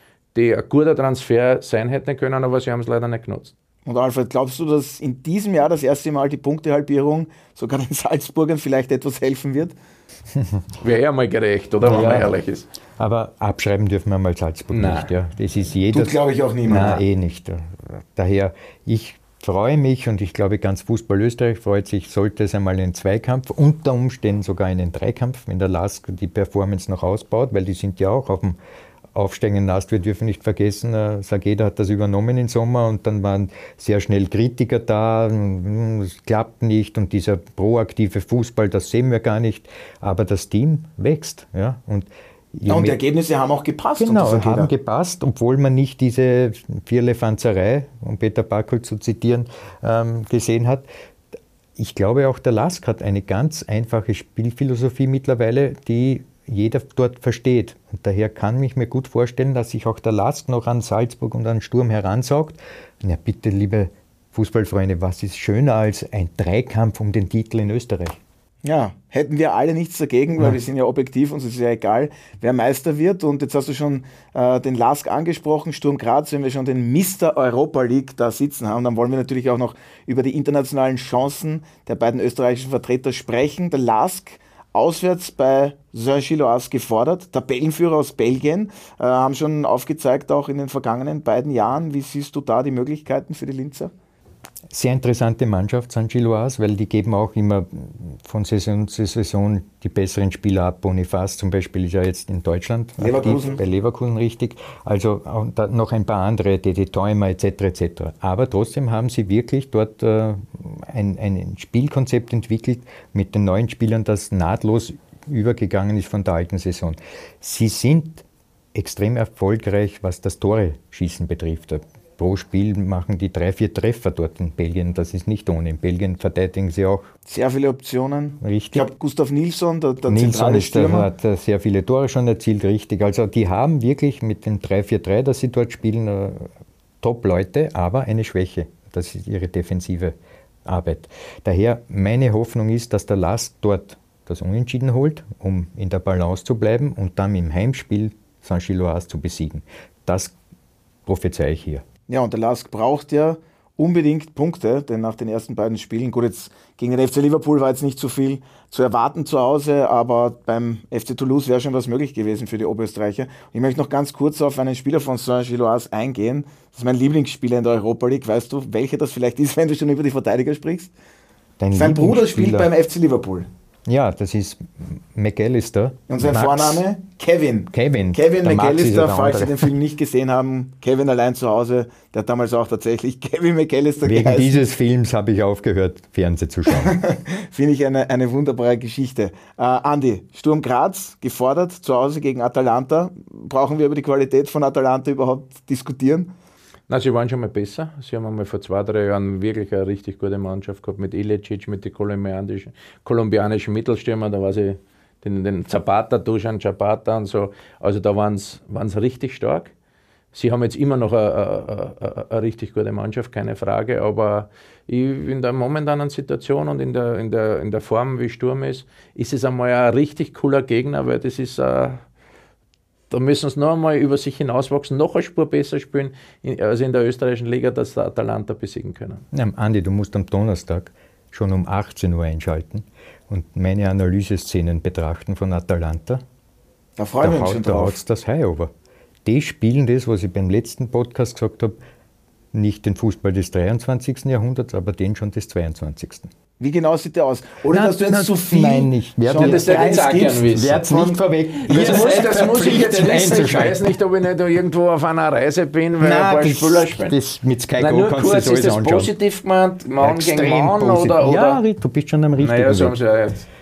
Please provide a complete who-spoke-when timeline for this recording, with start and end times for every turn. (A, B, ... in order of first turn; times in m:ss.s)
0:00.3-0:03.5 A
0:03.8-0:09.7 B
0:10.3-0:10.6 C
0:10.8-0:12.7 A
0:11.8-0:12.3 C
0:13.0-0:28.6 C
0:14.7-0:15.1 A
0:15.9-0:17.0 B
0:29.1-0:43.0 C
0:42.7-0:44.7 B
0:44.0-0:50.8 C
0:51.8-1:08.2 C
1:08.6-1:33.9 B
1:34.7-2:07.1 C
1:43.0-1:43.6 B
2:07.3-2:11.1 B
2:08.4-2:08.9 C
2:10.1-2:16.5 C
2:17.0-2:30.3 C
2:31.0-2:31.8 C
2:32.1-2:50.9 B
2:51.6-2:52.7 C
2:51.7-2:53.5 B
2:53.8-2:56.8 C
2:56.1-3:04.6 B
2:57.7-2:59.7 C
3:04.0-3:07.0 C
3:06.7-3:16.3 B
3:16.9-3:29.7 A
3:30.3-3:42.0 A
3:43.1-3:49.2 A
3:49.3-3:56.2 C
3:57.0-3:58.0 B
3:57.2-3:58.7 C
3:59.2-4:01.8 C
4:02.5-4:06.3 C
4:06.6-4:11.1 B
4:07.7-4:14.0 C
4:09.4-4:10.9 A
4:11.6-4:17.2 A
4:11.7-4:12.1 B
4:16.0-4:19.1 C
4:17.8-4:21.6 A
4:20.0-4:23.0 C
4:22.4-4:23.4 A